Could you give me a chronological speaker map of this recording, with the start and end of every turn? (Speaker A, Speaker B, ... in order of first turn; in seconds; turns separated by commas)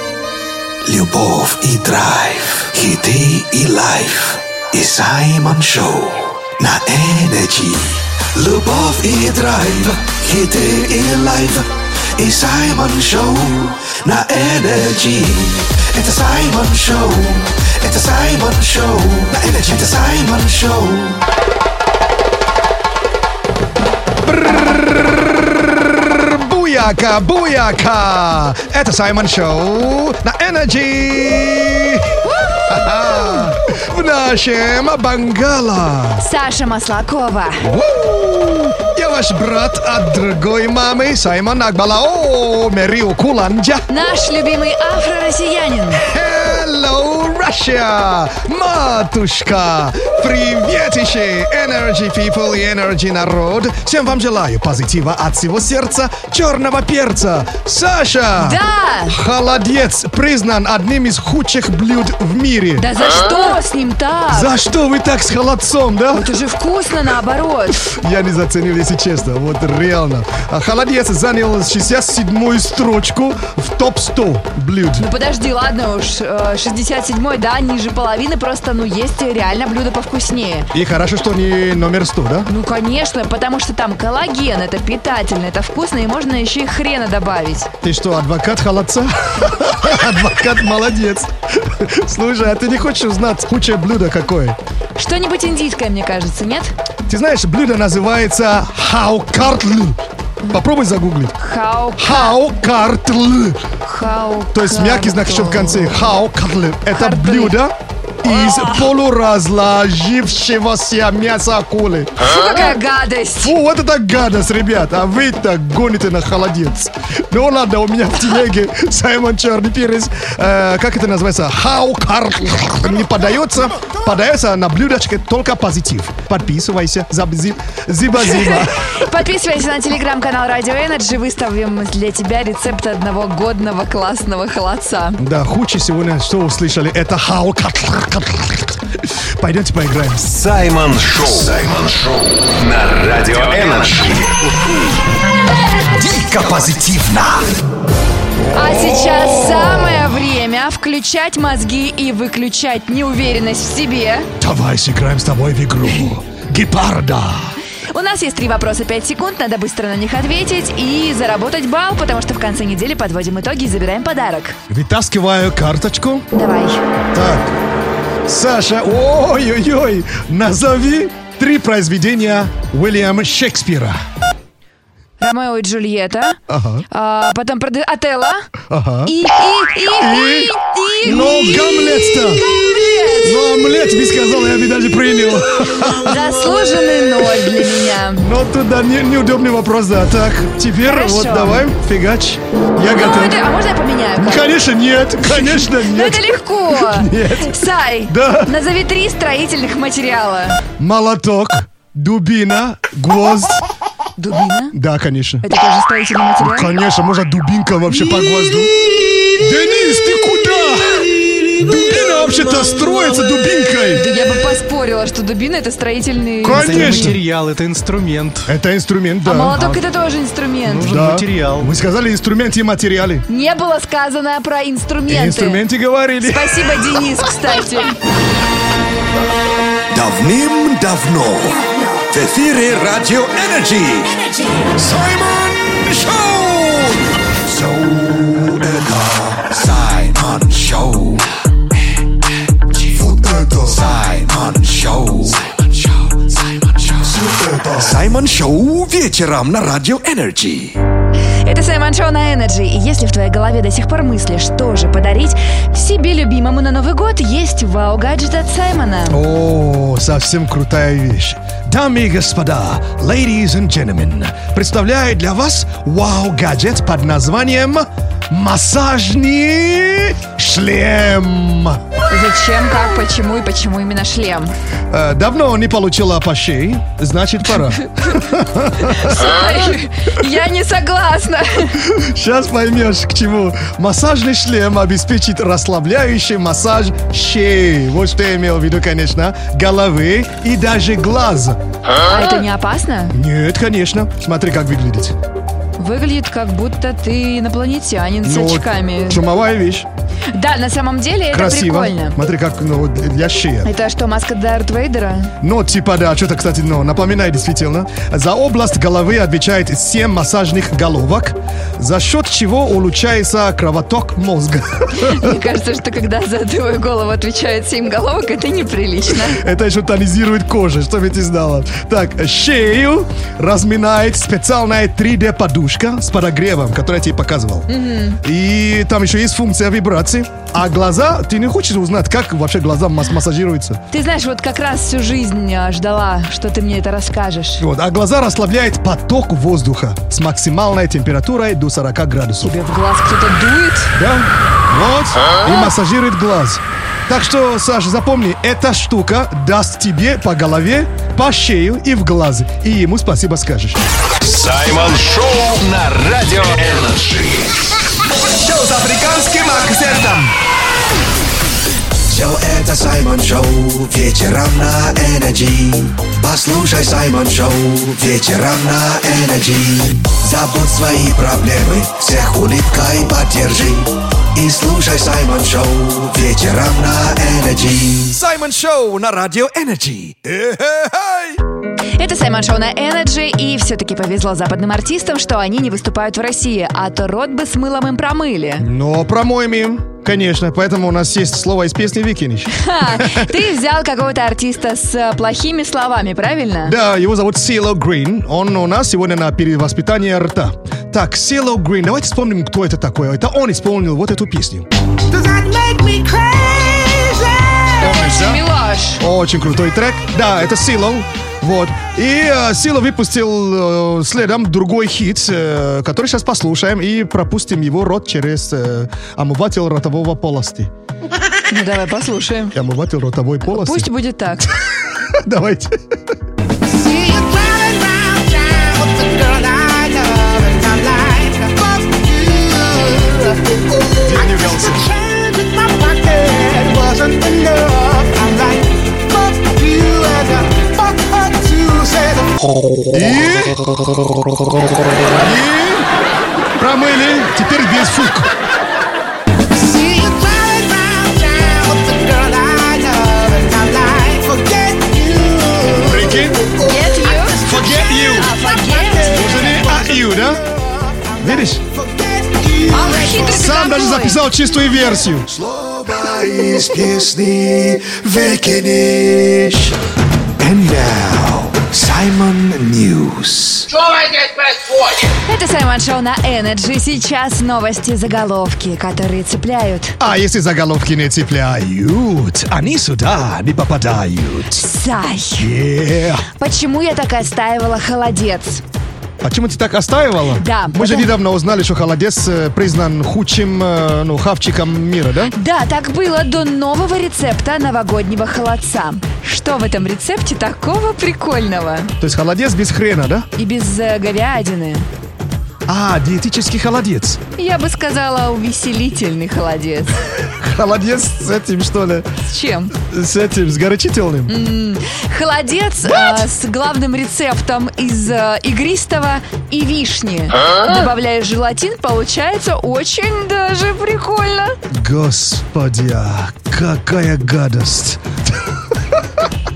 Speaker A: 0.8-21.2, Speaker B: 24.2-36.2, Speaker C: 36.2-37.7, Speaker B: 37.6-43.9, Speaker C: 43.9-46.0, Speaker B: 45.9-62.9, Speaker C: 58.4-59.1, Speaker C: 62.8-64.5, Speaker B: 64.3-66.3, Speaker C: 66.1-67.8, Speaker B: 67.9-75.1, Speaker C: 75.0-80.7, Speaker B: 80.7-82.5, Speaker C: 82.5-87.7, Speaker B: 87.8-94.6, Speaker C: 95.0-96.7, Speaker B: 97.1-100.0, Speaker B: 100.5-101.3, Speaker C: 101.4-102.4, Speaker B: 102.0-103.6, Speaker C: 103.8-106.1, Speaker B: 104.5-112.3, Speaker C: 106.9-107.6, Speaker C: 112.2-113.5, Speaker B: 113.4-129.1, Speaker C: 128.3-135.2, Speaker B: 135.2-140.3, Speaker D: 140.3-144.4, Speaker A: 145.9-147.5, Speaker B: 148.4-150.2, Speaker C: 148.5-154.3, Speaker B: 154.4-157.6, Speaker C: 157.9-164.6, Speaker B: 164.7-166.2, Speaker C: 166.3-166.8, Speaker B: 167.1-167.5, Speaker B: 168.3-174.0, Speaker C: 175.2-176.4, Speaker B: 176.5-176.8, Speaker C: 176.9-178.5, Speaker B: 178.7-179.1, Speaker C: 179.1-183.4, Speaker B: 179.9-182.4, Speaker B: 183.2-193.4, Speaker C: 185.8-188.3, Speaker C: 190.8-191.7, Speaker C: 192.8-194.5, Speaker B: 194.2-198.5, Speaker C: 195.2-200.6, Speaker B: 200.8-203.7, Speaker C: 204.2-204.8, Speaker B: 204.7-205.4, Speaker C: 205.4-206.7, Speaker B: 206.4-208.7, Speaker B: 209.3-214.1, Speaker C: 213.9-217.1, Speaker B: 216.4-217.2, Speaker E: 216.5-218.5, Speaker B: 218.5-219.6, Speaker C: 219.2-220.9, Speaker E: 220.7-221.7, Speaker B: 220.8-223.2, Speaker C: 223.3-225.6, Speaker B: 225.1-226.7, Speaker C: 226.2-228.0, Speaker A: 229.9-234.1, Speaker A: 234.7-241.3, Speaker A: 242.9-250.8, Speaker B: 243.0-243.5, Speaker C: 251.4-259.2, Speaker B: 259.1-271.8, Speaker C: 272.1-274.5, Speaker B: 274.9-279.3, Speaker C: 278.8-281.8, Speaker B: 281.9-291.6, Speaker C: 292.0-293.1, Speaker B: 293.1-295.1, Speaker C: 295.8-299.2, Speaker B: 298.2-299.9, Speaker C: 300.3-302.2, Speaker B: 301.3-303.7, Speaker C: 303.6-305.3, Speaker B: 305.4-315.4, Speaker C: 315.0-319.4, Speaker B: 319.1-327.7, Speaker C: 327.7-328.2, Speaker B: 328.2-333.8, Speaker C: 333.9-337.6, Speaker B: 337.6-342.6, Speaker C: 342.4-343.9, Speaker B: 344.0-353.8, Speaker D: 354.2-357.6, Speaker B: 358.4-360.3, Speaker A: 362.1-378.2, Speaker B: 378.1-381.4, Speaker C: 382.0-388.7, Speaker B: 388.6-393.3, Speaker C: 392.6-396.8, Speaker B: 396.6-404.7, Speaker F: 405.1-407.9, Speaker B: 407.8-408.4, Speaker C: 407.8-409.0, Speaker B: 409.0-420.7, Speaker C: 421.5-422.6, Speaker B: 422.5-423.9, Speaker C: 423.5-424.5, Speaker B: 424.7-425.8, Speaker F: 426.6-442.3, Speaker B: 434.0-434.9, Speaker B: 442.9-443.6, Speaker B: 445.1-445.9, Speaker B: 446.6-448.3, Speaker F: 449.5-463.4, Speaker B: 455.9-456.5, Speaker C: 456.6-459.5, Speaker B: 457.4-458.4, Speaker B: 459.1-460.4, Speaker B: 461.2-461.6, Speaker C: 462.7-464.2, Speaker B: 463.1-465.3, Speaker A: 465.3-469.8, Speaker A: 470.4-473.7, Speaker F: 474.1-474.5, Speaker C: 475.3-480.0, Speaker B: 480.0-484.6, Speaker C: 484.5-485.5, Speaker B: 485.4-486.3, Speaker C: 486.4-488.6, Speaker B: 489.2-495.3, Speaker C: 490.4-491.1, Speaker C: 495.3-501.9, Speaker B: 502.0-503.3, Speaker C: 503.4-504.9, Speaker B: 505.7-507.2, Speaker C: 507.4-510.0, Speaker B: 510.2-512.1, Speaker C: 512.3-512.7, Speaker B: 512.8-514.3, Speaker C: 514.3-524.6, Speaker B: 515.9-516.2, Speaker B: 524.7-529.0